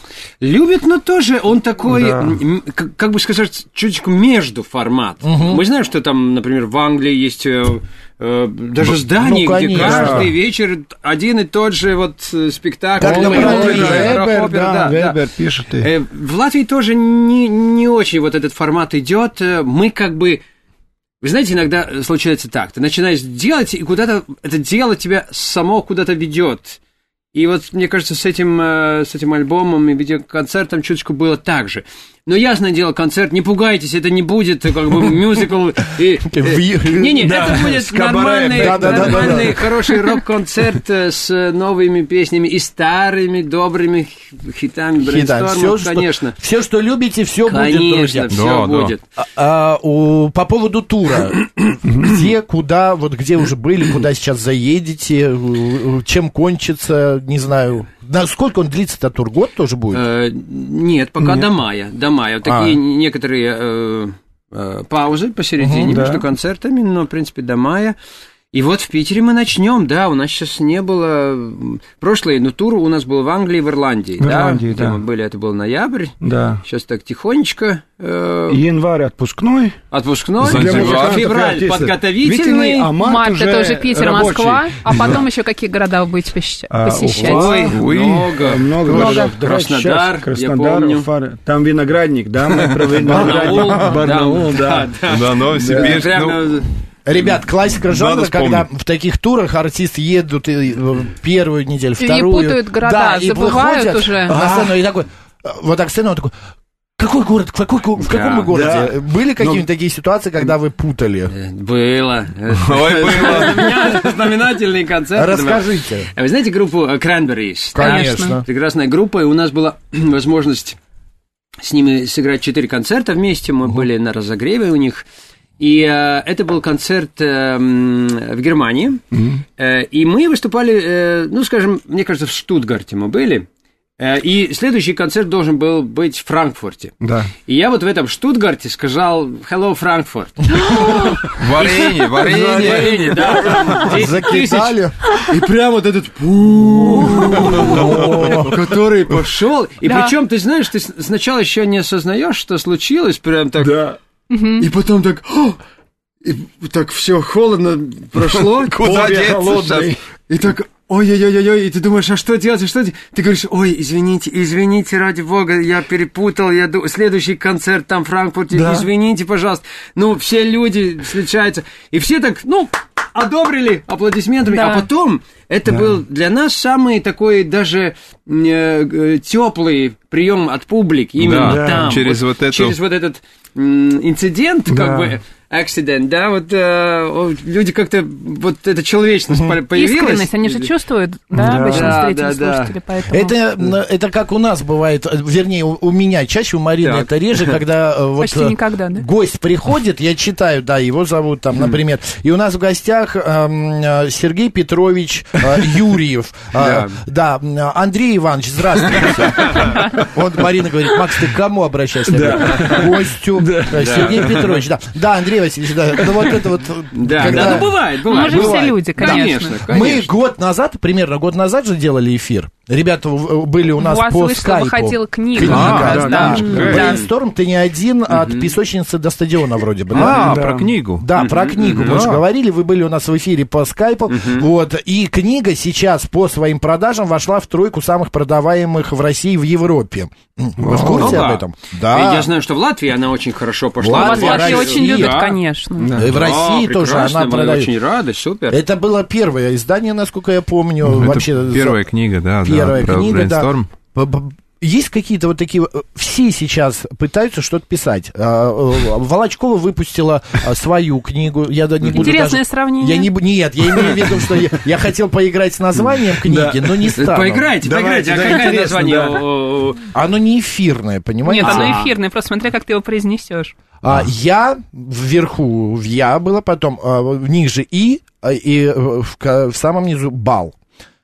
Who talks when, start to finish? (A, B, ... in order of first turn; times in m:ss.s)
0:00.4-0:20.4 A
0:01.9-0:02.4 B
0:05.2-0:05.6 C
0:09.1-0:10.3 C
0:09.7-0:10.3 B
0:13.0-0:14.2 C
0:13.0-0:15.9 B
0:21.2-0:26.8 A
0:27.3-0:46.4 A
0:36.3-0:37.8 C
0:37.2-0:39.4 B
0:38.5-0:39.7 C
0:45.0-0:48.3 C
0:47.4-0:49.0 A
0:48.3-0:48.9 D
0:49.2-1:00.0 C
0:51.8-0:52.1 B
0:59.9-1:08.0 A
1:01.2-1:01.5 B
1:02.4-1:02.8 C
1:05.6-1:06.0 C
1:05.8-1:06.2 B
1:08.5-1:18.6 A
1:14.2-1:15.0 B
1:16.2-1:16.6 B
1:18.5-1:19.8 B
1:19.9-1:22.9 A
1:20.4-1:21.3 D
1:20.4-1:25.2 B
1:23.0-1:27.6 E
1:26.7-1:27.8 B
1:27.1-1:31.1 A
1:27.6-1:28.4 D
1:28.4-1:34.9 B
1:29.0-1:29.3 E
1:33.0-1:36.7 A
1:33.2-1:33.9 D
1:35.0-1:36.6 D
1:35.5-1:35.9 B
1:37.0-1:46.3 C
1:37.8-1:38.7 D
1:42.0-1:44.4 E
1:44.2-1:44.7 B
1:47.0-1:51.3 C
1:48.0-1:48.5 A
1:48.5-1:49.6 B
1:51.3-2:00.8 A
1:52.6-1:53.6 D
1:55.1-1:56.1 C
1:57.7-1:58.4 C
1:57.8-1:58.4 E
2:01.6-2:05.0 A
2:05.6-2:09.0 A
2:09.1-2:09.4 B
2:09.6-2:13.4 A
2:14.0-2:33.9 A
2:17.0-2:17.3 B
2:20.5-2:21.3 E
2:21.4-2:23.4 D
2:22.6-2:23.9 B
2:23.8-2:25.1 C
2:27.0-2:28.5 B
2:27.2-2:28.6 C
2:29.8-2:30.2 E
2:33.6-2:34.0 B
2:34.3-2:34.7 E
2:34.6-2:35.6 A
2:36.2-2:39.3 A
2:38.3-2:40.0 D
2:38.8-2:40.0 B
2:40.3-3:10.7 A
2:48.5-2:48.9 B
2:54.5-2:54.9 E
3:01.2-3:02.8 D
3:01.4-3:01.9 B
3:04.7-3:05.1 B
3:09.3-3:09.6 C
3:09.7-3:13.4 E
3:11.3-3:11.9 B
3:11.4-3:11.9 C
3:11.4-3:12.7 A
3:13.1-4:02.3 C
3:16.8-3:17.6 A
3:18.2-3:19.1 E
3:26.6-3:27.0 A
3:29.4-3:29.7 A
3:32.1-3:34.4 B
3:33.7-3:34.6 A
3:36.9-3:40.1 A
3:38.0-3:39.6 E
3:43.8-3:47.0 E
3:45.4-3:46.9 D
3:45.4-3:46.8 B
3:45.8-3:47.0 A
3:48.1-3:48.5 A
3:49.9-3:51.0 D
3:50.0-3:50.7 B
3:51.1-3:52.0 A
3:51.8-3:52.2 D
3:54.1-3:54.5 A
4:00.6-4:01.2 B
4:00.8-4:05.4 A
4:03.8-4:05.2 C
4:03.9-4:06.0 E
4:05.8-4:06.1 B
4:05.9-4:07.7 C
4:06.0-4:08.6 A
4:08.5-4:11.8 C
4:10.9-4:13.7 D
4:12.4-4:27.5 C
4:21.9-4:23.1 E
4:26.2-4:27.0 B
4:26.9-4:29.9 A
4:27.6-4:29.2 B
4:29.9-4:31.8 C
4:31.2-4:33.5 E
4:31.4-4:31.9 A
4:33.8-4:40.5 C